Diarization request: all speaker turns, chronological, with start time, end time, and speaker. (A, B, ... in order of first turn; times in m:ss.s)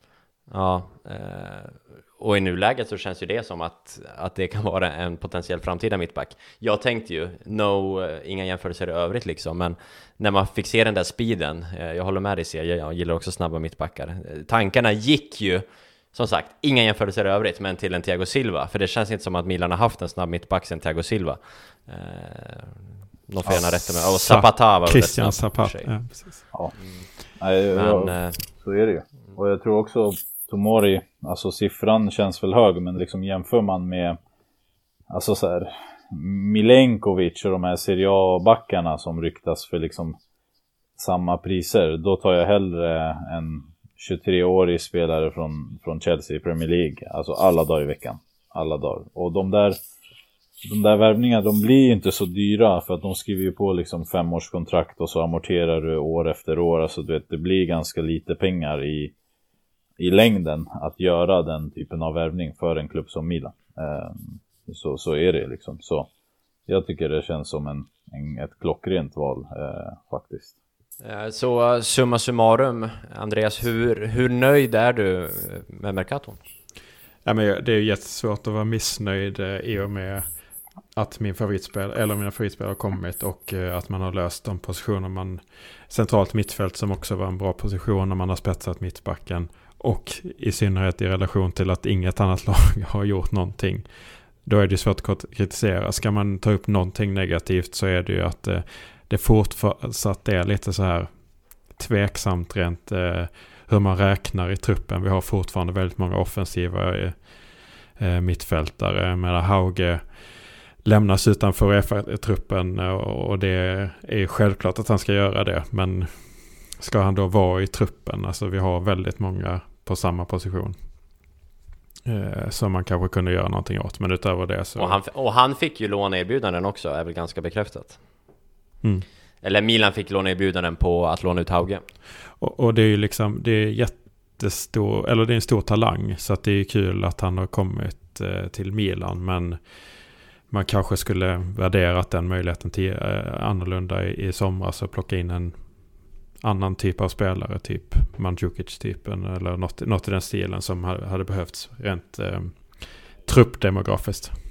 0:00.5-0:26.1 A
0:23.5-0:26.4 B
0:26.5-0:34.2 C
0:26.8-0:27.1 A
0:27.7-0:28.4 A
0:35.1-0:40.2 C
0:41.0-0:49.8 C
0:50.6-0:59.1 C
1:00.0-1:06.1 C
1:06.7-1:10.5 C
1:11.0-1:16.4 A
1:17.2-1:20.4 B
1:20.9-1:33.9 B
1:34.4-1:41.2 B
1:41.7-2:00.8 B
2:02.0-2:05.0 B
2:04.8-2:08.0 A
2:09.4-2:11.8 A
2:12.4-2:19.8 B
2:20.5-2:25.6 B
2:26.4-2:34.3 B